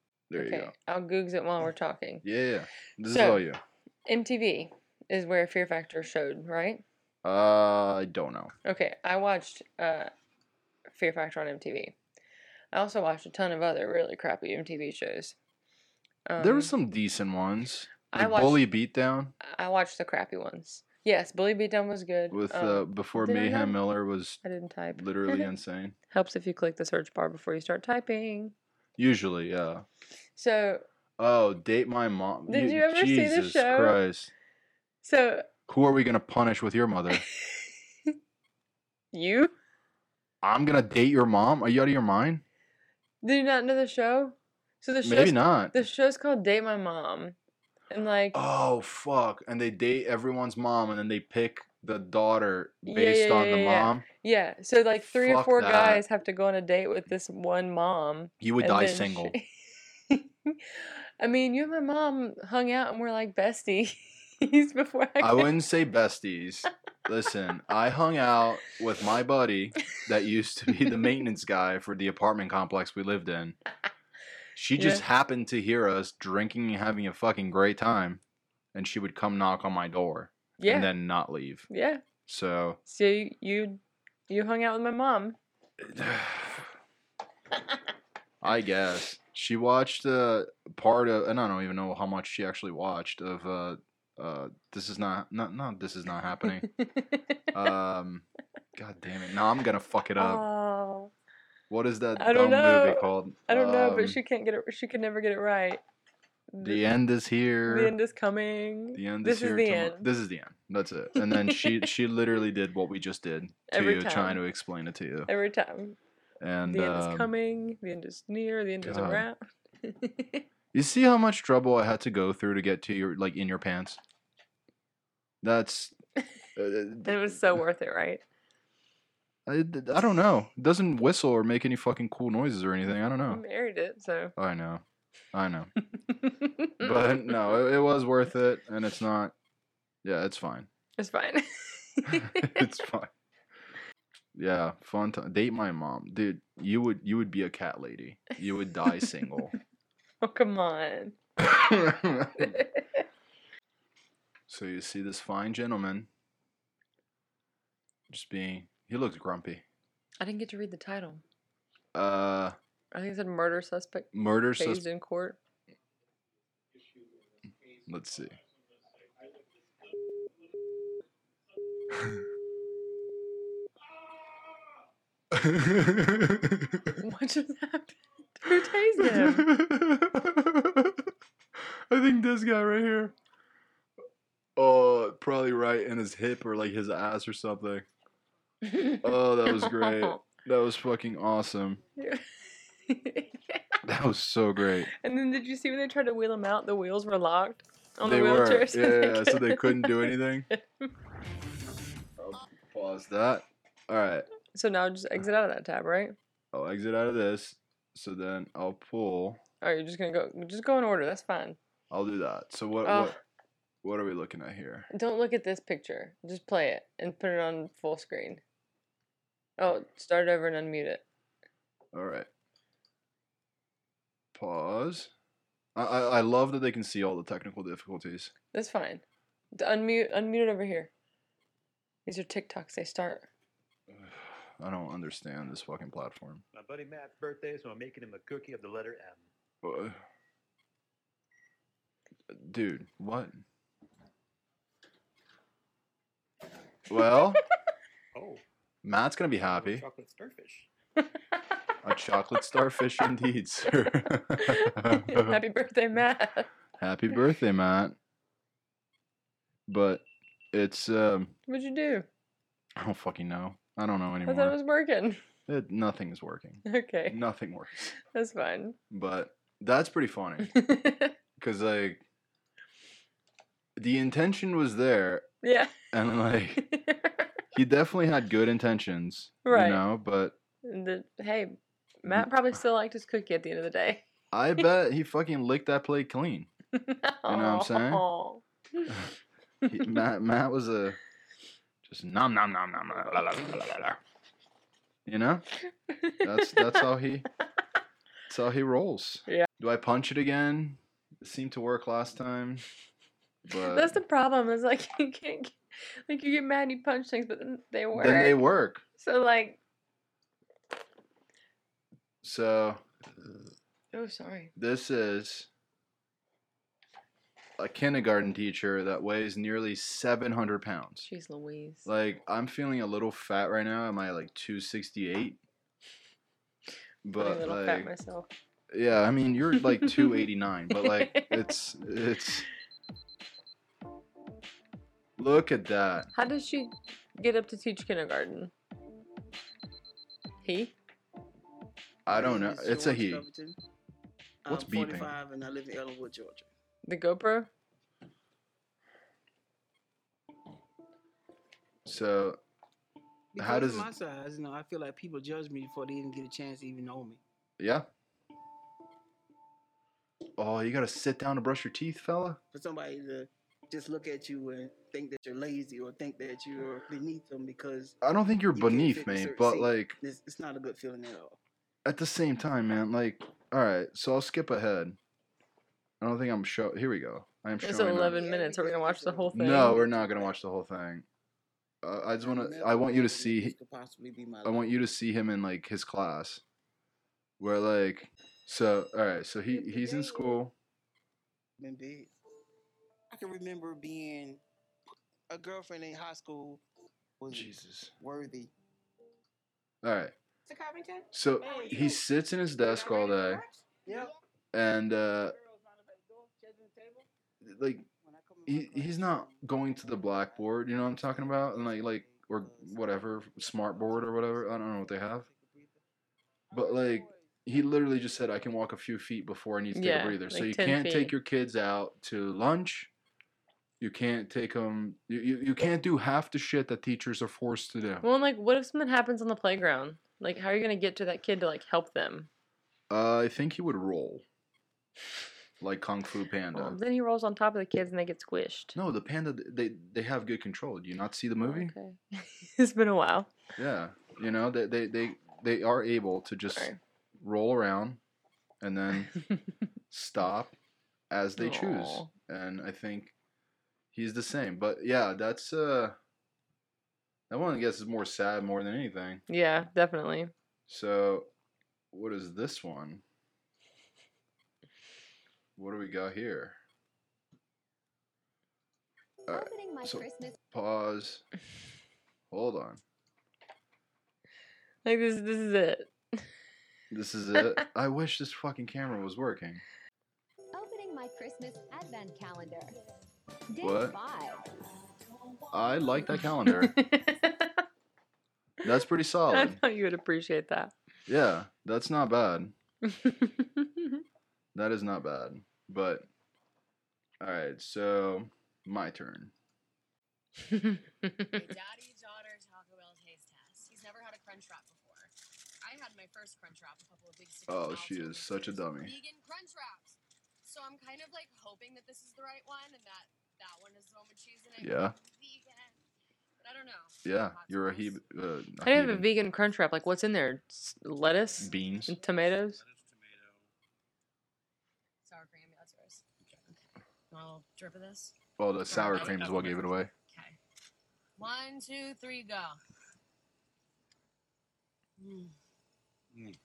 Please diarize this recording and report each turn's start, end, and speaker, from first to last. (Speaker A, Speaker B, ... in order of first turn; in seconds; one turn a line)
Speaker A: 0.3-0.7
Speaker B: 0.3-2.2
Speaker A: 2.2-3.6
Speaker B: 3.1-3.4
Speaker B: 4.0-6.8
Speaker A: 7.2-8.5
Speaker B: 8.6-10.1
Speaker B: 10.9-11.9
Speaker B: 12.7-15.3
Speaker B: 16.3-16.7
Speaker A: 16.4-19.3
Speaker B: 18.1-18.6
Speaker B: 19.4-23.8
Speaker A: 22.3-24.4
Speaker B: 24.4-25.5
Speaker A: 24.9-25.9
Speaker B: 26.1-28.5
Speaker A: 29.0-29.9
Speaker B: 30.4-30.8
Speaker A: 31.2-34.3
Speaker B: 32.5-34.0
Speaker B: 35.0-35.5
Speaker A: 35.7-37.2
Speaker B: 37.1-38.1
Speaker B: 39.1-39.5
Speaker A: 40.4-42.4
Speaker B: 43.2-47.4
Speaker A: 45.0-45.8
Speaker B: 47.9-48.4
Speaker A: 48.3-54.0
Speaker B: 52.9-59.5
Speaker A: 55.0-56.0
Speaker A: 58.4-59.3
Speaker B: 60.1-65.5
Speaker A: 65.2-73.6
Speaker A: 74.5-78.2
Speaker B: 74.8-75.0
Speaker A: 78.7-81.7
Speaker B: 80.6-80.9
Speaker B: 81.7-82.0
Speaker A: 82.2-82.8
Speaker B: 82.8-85.4
Speaker A: 85.8-86.7
Speaker A: 88.4-96.7
Speaker B: 96.7-97.4
Speaker A: 97.5-100.4
Speaker B: 100.2-101.1
Speaker A: 101.7-104.2
Speaker B: 102.2-105.8
Speaker B: 106.5-106.8
Speaker A: 106.6-108.0
Speaker B: 107.7-110.1
Speaker A: 108.9-115.3
Speaker B: 111.2-111.9
Speaker B: 113.7-114.4
Speaker B: 115.3-116.0
Speaker A: 116.4-117.3
Speaker B: 116.7-120.4
Speaker A: 118.8-119.3
Speaker A: 120.7-124.0
Speaker A: 125.4-125.9
Speaker A: 126.5-127.6
Speaker B: 127.0-128.2
Speaker A: 129.4-133.4
Speaker B: 133.3-134.3
Speaker A: 134.3-135.7
Speaker B: 136.1-137.5
Speaker A: 136.8-139.3
Speaker A: 140.0-140.7
Speaker B: 141.0-142.6
Speaker A: 142.1-143.1
Speaker A: 144.3-149.5
Speaker B: 150.2-151.2
Speaker A: 151.4-152.5
Speaker B: 152.4-153.0
Speaker A: 154.5-156.1
Speaker A: 158.1-159.6
Speaker B: 160.2-161.2
Speaker A: 161.9-162.6
Speaker B: 162.9-165.4
Speaker A: 164.1-164.8
Speaker A: 167.9-168.4
Speaker A: 175.3-176.9
Speaker B: 177.0-179.5
Speaker A: 179.0-181.1
Speaker A: 181.9-183.1
Speaker A: 184.6-187.9
Speaker B: 188.7-190.2
Speaker A: 189.0-191.8
Speaker B: 192.0-192.2
Speaker B: 192.8-193.7
Speaker A: 193.8-194.9
Speaker B: 194.9-200.9
Speaker A: 198.0-200.5
Speaker A: 202.2-204.2
Speaker B: 204.5-206.1
Speaker A: 206.5-209.4
Speaker B: 209.6-211.6
Speaker A: 211.9-213.2
Speaker B: 212.8-213.2
Speaker A: 213.8-214.9
Speaker B: 214.9-218.4
Speaker B: 219.6-221.0
Speaker A: 221.9-222.3
Speaker A: 224.3-225.1
Speaker A: 225.7-228.3
Speaker B: 228.5-229.0
Speaker B: 229.5-230.9
Speaker B: 232.1-233.3
Speaker A: 233.9-236.4
Speaker C: 236.5-239.3
Speaker A: 239.6-240.0
Speaker A: 242.3-243.4
Speaker A: 246.9-247.4
Speaker C: 248.1-248.4
Speaker A: 248.8-249.8
Speaker C: 249.3-250.7
Speaker A: 251.8-255.4
Speaker B: 254.3-256.5
Speaker A: 256.8-258.0
Speaker A: 259.7-261.3
Speaker B: 261.5-262.1
Speaker A: 262.8-264.6
Speaker B: 264.2-265.2
Speaker A: 265.5-267.9
Speaker B: 266.6-267.2
Speaker B: 268.0-268.8
Speaker A: 268.9-270.5
Speaker B: 270.4-271.1
Speaker A: 271.4-272.0
Speaker A: 273.8-275.3
Speaker B: 275.4-275.7
Speaker A: 275.9-276.6
Speaker B: 276.6-277.3
Speaker A: 277.5-280.4
Speaker B: 279.4-279.8
Speaker B: 280.6-284.0
Speaker A: 284.3-286.5
Speaker B: 286.7-288.9
Speaker A: 287.3-288.0
Speaker A: 289.7-291.0
Speaker A: 291.8-294.0
Speaker A: 295.1-295.4
Speaker B: 295.9-296.9
Speaker A: 296.2-297.3
Speaker A: 298.3-302.6
Speaker A: 303.5-304.0
Speaker B: 303.6-305.6
Speaker B: 306.1-308.4
Speaker A: 307.9-308.8
Speaker B: 309.0-309.6
Speaker A: 312.2-312.8
Speaker B: 313.9-314.5
Speaker A: 314.6-315.5
Speaker A: 317.6-321.1
Speaker B: 321.1-321.9
Speaker A: 321.8-325.4
Speaker A: 327.0-327.9
Speaker B: 327.2-328.3
Speaker A: 328.7-332.5
Speaker B: 329.6-331.4
Speaker A: 335.2-336.1
Speaker B: 336.1-338.5
Speaker B: 340.4-340.7
Speaker A: 342.1-343.2
Speaker D: 342.1-343.6
Speaker D: 344.4-346.5
Speaker A: 344.5-345.1
Speaker B: 346.9-347.5
Speaker A: 351.9-352.4
Speaker D: 353.3-357.2
Speaker A: 353.4-353.9
Speaker A: 357.6-357.9
Speaker A: 360.4-362.4
Speaker D: 362.5-367.9
Speaker A: 368.0-370.0
Speaker D: 368.5-371.4
Speaker A: 371.8-375.0
Speaker A: 376.0-378.2
Speaker B: 377.6-379.9
Speaker D: 378.1-380.3
Speaker A: 379.3-381.1
Speaker A: 381.8-383.5
Speaker D: 382.2-384.7
Speaker A: 384.4-386.4
Speaker A: 387.4-390.5
Speaker D: 389.5-390.4
Speaker D: 391.6-392.1
Speaker D: 393.1-394.4
Speaker D: 395.3-396.6
Speaker D: 397.2-398.5
Speaker A: 397.3-397.9
Speaker A: 399.8-400.1
Speaker D: 400.4-401.9
Speaker A: 401.1-403.4
Speaker D: 402.6-404.1
Speaker A: 404.5-405.4
Speaker D: 405.4-407.1
Speaker A: 407.4-407.9
Speaker D: 408.0-415.8
Speaker A: 408.4-415.3
Speaker A: 416.5-422.9
Speaker D: 416.6-417.3
Speaker B: 419.7-421.1
Speaker A: 423.8-428.0
Speaker B: 428.0-432.3
Speaker A: 432.9-434.2
Speaker A: 435.6-436.8
Speaker B: 436.5-438.7
Speaker A: 438.7-441.7
Speaker B: 441.4-443.3
Speaker A: 443.6-448.0
Speaker A: 448.6-449.1
Speaker A: 449.9-450.5
Speaker A: 451.1-453.1
Speaker B: 451.4-452.1
Speaker A: 453.9-456.0
Speaker A: 457.3-459.2
Speaker B: 459.3-460.3
Speaker A: 460.7-461.3
Speaker A: 461.9-463.0
Speaker A: 465.6-466.6
Speaker E: 469.3-470.4
Speaker A: 469.3-471.2
Speaker A: 472.3-472.8
Speaker B: 474.8-476.2
Speaker A: 476.9-479.6
Speaker E: 480.5-482.8
Speaker E: 483.5-484.4
Speaker A: 483.6-484.0
Speaker A: 485.5-486.7
Speaker B: 486.1-487.6
Speaker A: 488.6-489.6
Speaker B: 489.3-490.7
Speaker A: 491.1-492.5
Speaker B: 492.8-494.0
Speaker A: 494.5-496.1
Speaker A: 497.2-499.3
Speaker B: 500.5-501.3
Speaker F: 501.3-515.8
Speaker A: 507.5-508.9
Speaker A: 514.6-514.9
Speaker F: 516.4-518.0
Speaker A: 517.0-519.1
Speaker B: 518.6-522.6
Speaker A: 521.4-522.0
Speaker F: 521.9-522.3
Speaker F: 525.0-528.1
Speaker A: 528.4-529.9
Speaker F: 528.7-530.4
Speaker F: 531.2-532.6
Speaker F: 535.0-535.3